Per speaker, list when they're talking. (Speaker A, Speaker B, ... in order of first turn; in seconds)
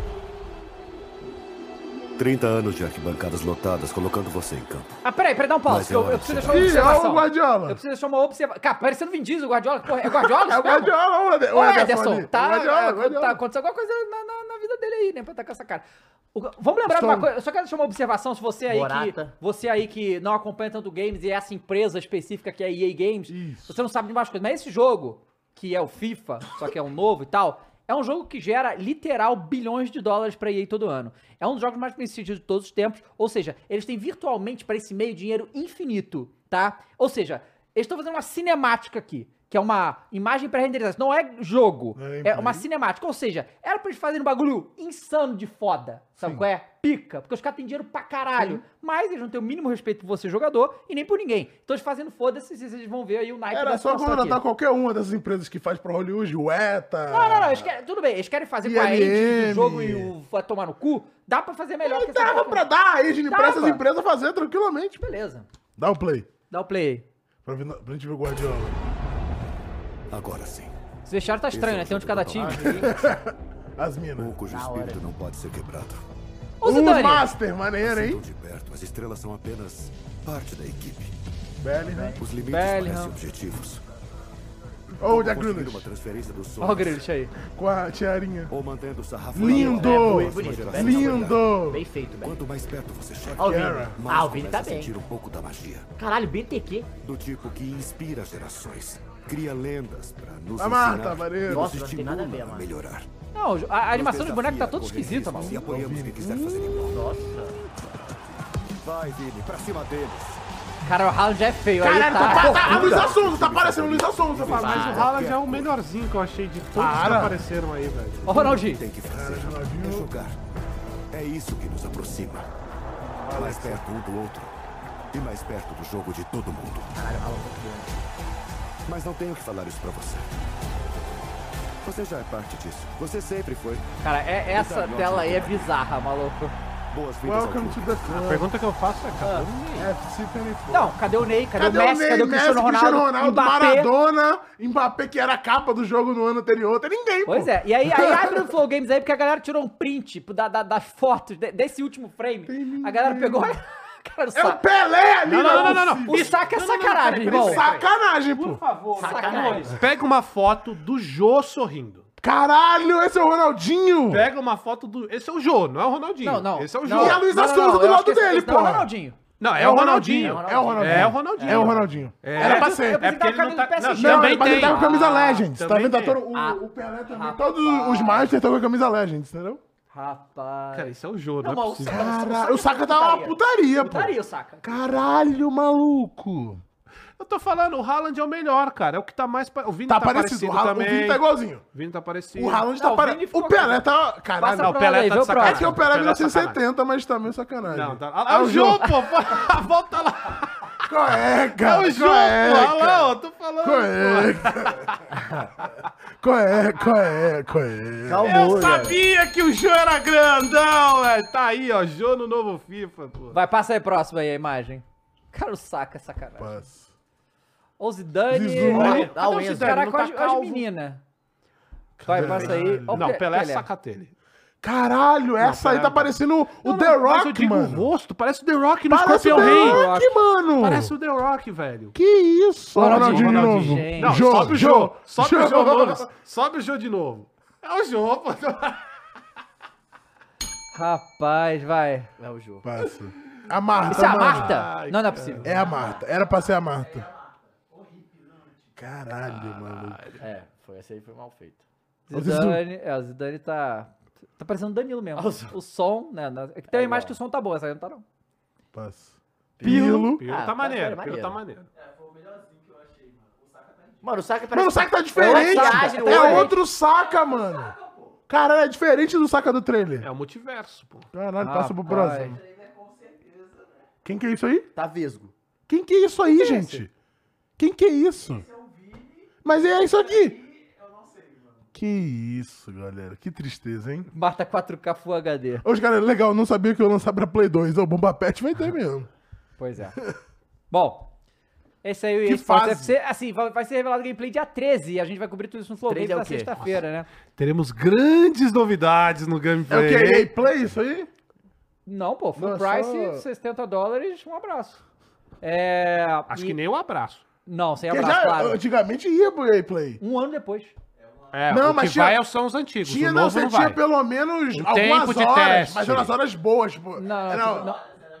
Speaker A: 2.2-4.9, 5.7-6.7, 70.1-70.7, 71.5-72.9, 74.2-76.0, 77.8-81.1, 82.2-83.8, 85.0-87.0, 88.5-91.5, 92.2-95.9, 97.0-103.1, 103.9-107.0, 108.8-110.4, 112.6-115.8, 118.2-120.4, 121.1-122.5, 123.3-126.9, 128.8-130.3, 131.8-133.8, 134.5-135.8, 136.9-138.3
Speaker B: 5.0-10.9, 11.5-54.4, 57.1-62.6, 63.3-63.8, 65.0-65.5, 66.5-67.0, 71.0-72.8, 76.6-77.3, 82.4-83.2, 86.6-87.3, 103.3-105.6, 110.8-112.8, 118.3-118.8, 134.0-136.5, 139.2-139.4, 140.7-143.9, 147.2-154.6, 155.4-157.6, 158.9-159.8, 166.2-169.2, 171.4-171.8, 172.3-175.5, 176.3-178.4, 179.9-184.8, 192.7-195.8, 213.3-216.6, 217.8-221.0, 222.1-223.7, 229.3-230.1, 232.7-234.5, 240.7-242.1, 243.9-245.5, 252.1-258.0, 265.1-266.6, 271.4-272.4, 276.3-276.9, 284.1-285.6, 289.6-290.0, 290.7-291.1, 291.8-297.1, 301.9-304.8, 305.4-306.6, 307.4-308.6, 310.0-310.7, 316.9-317.8
Speaker C: 6.4-7.8, 10.0-13.4, 16.9-17.3, 23.3-23.8, 42.0-42.6, 53.5-57.7, 58.6-60.1, 61.8-65.0, 65.8-66.3, 67.4-68.8, 72.6-74.4, 76.6-78.2, 81.6-82.2, 85.0-85.9, 87.5-88.5, 89.3-91.8, 93.4-94.0, 100.6-101.7, 105.5-106.8, 111.8-115.0, 116.8-117.4, 119.0-120.1, 123.3-123.8, 137.2-138.5, 139.8-140.9, 141.5-148.5, 152.5-153.5, 154.3-156.3, 157.2-158.6, 162.2-164.3, 166.8-168.9, 169.6-173.1, 174.0-179.6, 181.9-186.6, 189.9-191.6, 192.3-194.8, 195.3-198.9, 200.8-203.1, 203.6-204.9, 206.2-208.5, 216.4-216.9, 218.3-219.1, 222.0-223.0, 224.6-227.9, 228.9-230.9, 231.9-236.1, 242.6-244.6, 245.4-247.1, 248.8-250.0, 252.1-252.6, 258.7-260.2, 264.5-267.7, 268.3-270.1, 271.1-272.4, 274.0-274.7, 275.7-276.9, 277.6-278.5, 279.4-280.4, 281.7-284.1, 285.6-289.1, 292.2-292.9, 299.7-301.1, 302.4-303.2, 307.9-310.0, 311.5-312.2, 312.8-317.7
Speaker D: 18.7-19.3, 72.3-72.9, 74.4-75.0, 81.8-82.2, 89.4-92.4, 93.4-94.9, 96.0-96.9, 101.5-102.7, 106.8-107.6, 112.2-113.1, 114.6-115.1, 123.3-123.5, 127.0-127.9, 157.5-157.9, 158.9-159.8, 170.2-171.7, 181.9-182.7, 205.1-205.5, 208.0-209.0, 218.7-219.8, 242.2-242.7, 245.6-246.0, 250.2-251.6, 255.2-255.6, 256.7-257.2, 259.6-261.4, 264.0-266.6, 274.7-275.3, 295.9-296.6
Speaker E: 114.3-118.5, 138.1-139.9, 155.2-157.7, 158.3-162.1, 164.1-167.2, 169.4-176.2, 180.7-182.1, 187.2-192.7, 194.5-196.6, 197.7-200.9, 201.5-205.7, 208.2-213.3, 218.6-220.6, 222.1-224.1, 225.4-229.8, 230.6-231.9, 232.8-238.9, 243.8-245.6, 249.2-250.2, 259.7-261.7, 270.0-271.1, 297.4-300.3, 306.3-307.2, 311.3-313.8, 314.5-316.1